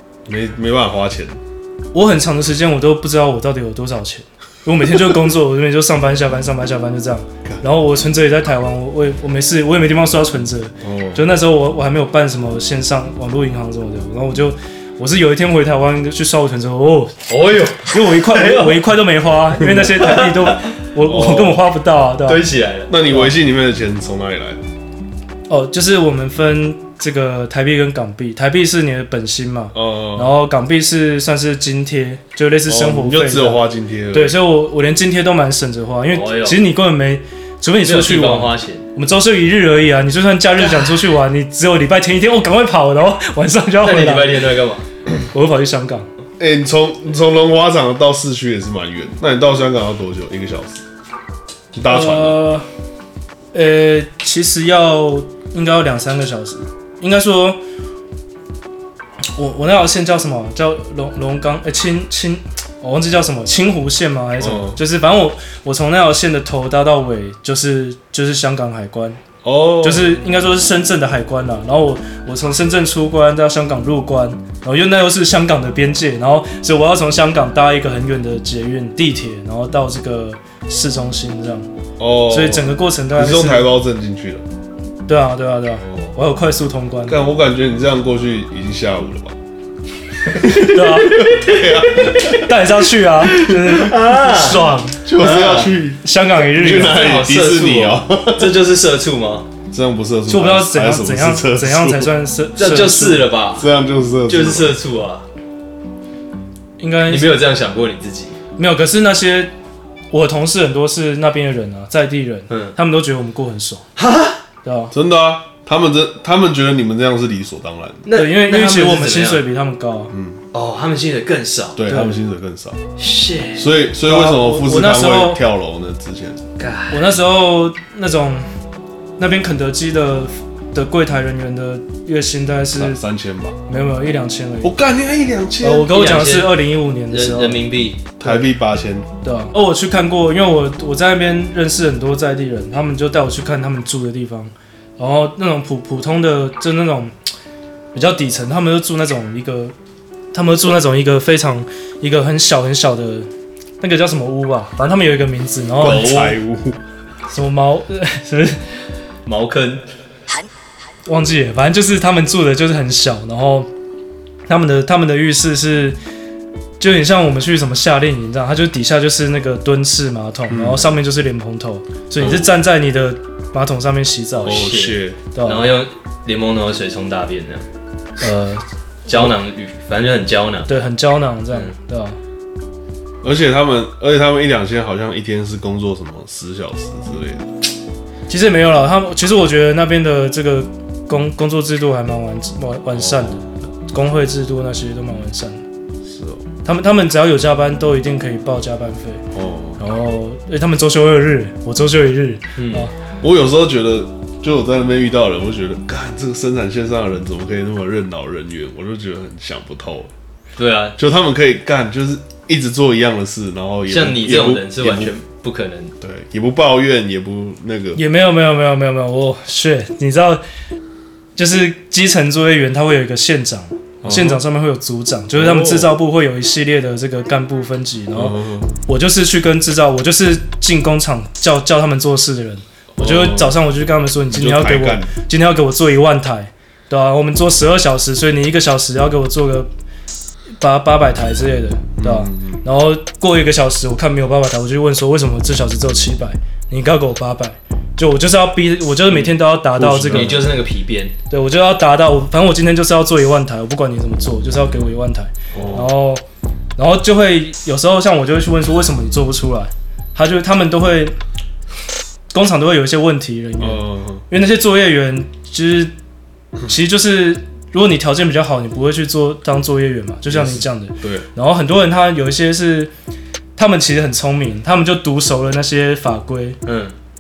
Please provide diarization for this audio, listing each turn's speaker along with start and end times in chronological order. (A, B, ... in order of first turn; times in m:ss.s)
0:00.2-0:01.4 A
0:01.9-0:17.2 B
0:10.8-0:11.3 A
0:17.3-0:18.8 C
0:17.8-0:22.4 B
0:19.6-0:20.6 C
0:21.1-0:21.5 A
0:21.2-0:21.6 C
0:22.2-0:22.9 C
0:22.9-0:24.6 A
0:25.5-0:44.3 B
0:29.7-0:30.4 A
0:32.6-0:34.5 A
0:36.1-0:36.6 C
0:37.8-0:38.8 C
0:43.8-0:44.8 C
0:45.3-0:46.1 B
0:46.4-0:50.8 A
0:51.7-0:52.4 A
0:51.8-0:52.6 B
0:53.5-0:57.6 B
0:59.4-1:09.2 B
1:04.4-1:04.8 A
1:09.4-1:10.2 A
1:09.8-1:21.7 B
1:22.0-1:24.4 A
1:22.3-1:23.7 B
1:25.1-1:27.2 B
1:27.1-1:29.4 A
1:30.4-1:32.4 A
1:30.6-1:31.2 B
1:31.1-1:32.4 C
1:32.4-1:35.0 B
1:33.3-1:34.6 C
1:35.0-1:38.6 A
1:35.2-1:35.7 C
1:36.0-1:37.0 B
1:36.7-1:39.5 C
1:39.7-1:42.1 A
1:40.3-1:43.3 B
1:42.6-1:43.7 C
1:43.6-1:44.8 A
1:44.3-1:45.3 C
1:46.8-1:47.4 B
1:47.1-1:48.4 C
1:48.6-1:49.5 B
1:50.1-1:53.8 B
1:52.5-1:52.8 C
1:54.0-1:54.4 C
1:54.6-1:54.9 B
1:54.9-1:58.1 A
1:58.0-1:59.5 C
1:58.1-2:00.1 B
2:00.1-2:00.4 A
2:00.5-2:01.8 C
2:01.8-2:02.8 A
2:01.9-2:02.2 B
2:03.0-2:03.8 C
2:03.6-2:06.4 A
2:04.0-2:05.4 B
2:06.6-2:07.2 C
2:06.9-2:08.5 B
2:09.2-2:13.0 B
2:12.7-2:13.6 A
2:13.7-2:14.8 B
2:14.6-2:16.0 A
2:15.6-2:17.6 B
2:15.9-2:18.1 C
2:18.2-2:19.1 A
2:18.2-2:18.5 B
2:19.2-2:27.1 B
2:27.9-2:29.7 B
2:30.3-2:33.3 B
2:33.8-2:36.4 B
2:35.8-2:36.8 A
2:37.3-2:38.6 B
2:39.2-2:39.8 C
2:41.1-2:43.7 B
2:44.5-2:46.0 B
2:46.8-2:54.7 B
2:50.5-2:51.0 A
2:52.2-2:52.5 A
2:54.4-2:55.2 A
2:54.5-2:57.7 C
2:55.3-2:55.7 B
2:58.2-2:59.3 B
2:59.1-3:00.7 C
3:00.7-3:02.2 B
3:03.2-3:07.5 A
3:08.3-3:15.6 B
3:12.9-3:13.4 A
3:16.0-3:16.4 A
3:16.6-3:19.2 B
3:19.3-3:19.8 A
3:19.8-3:22.9 B
3:22.6-3:22.9 C
3:23.2-3:30.1 A
3:30.6-3:31.0 C
3:31.0-3:35.1 A
3:33.9-3:35.9 C
3:36.0-3:38.0 A
3:38.0-3:40.4 B
3:41.4-3:59.7 B
3:44.0-3:44.4 A
3:45.3-3:46.0 A
3:48.1-3:48.7 A
3:53.0-3:53.6 A
3:54.3-3:55.1 A
4:00.6-4:10.3 B
4:02.0-4:02.6 A
4:09.1-4:10.5 A
4:10.1-4:11.1 C
4:11.3-4:16.2 B
4:15.5-4:15.9 A
4:16.8-4:21.2 B
4:22.3-4:25.9 B
4:23.6-4:24.2 A
4:26.7-4:32.9 B
4:30.3-4:31.3 A
4:33.6-4:36.6 B
4:36.6-4:36.9 C